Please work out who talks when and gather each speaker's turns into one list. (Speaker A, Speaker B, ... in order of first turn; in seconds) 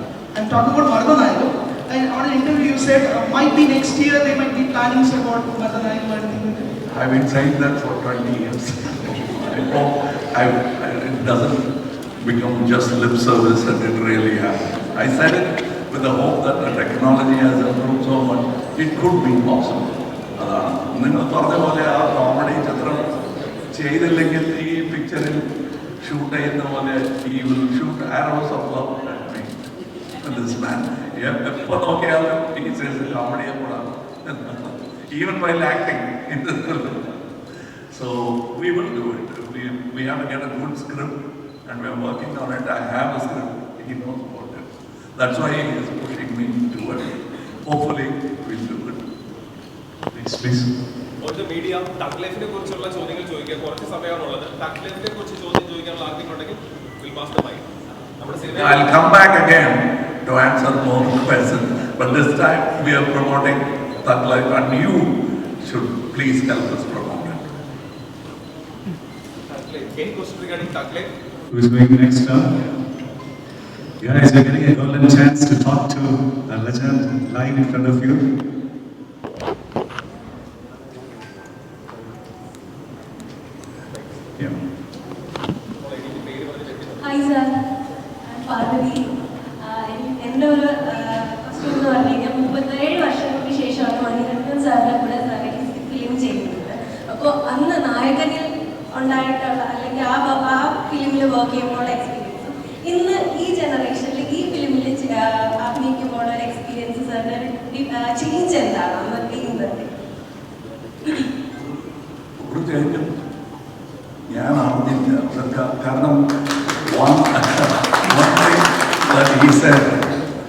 Speaker A: 0.3-6.7
Speaker B: 6.9-23.1, 23.7-25.4, 26.0-29.6, 30.2-37.0, 37.9-47.1, 47.6-49.0, 58.5-67.4, 112.4-113.1, 114.3-116.3, 116.8-120.1
Speaker C: 50.1-50.7, 71.6-72.4, 74.0-78.2
Speaker D: 51.2-57.6, 58.2-58.8
Speaker E: 87.0-87.5, 88.3-89.1, 89.6-109.9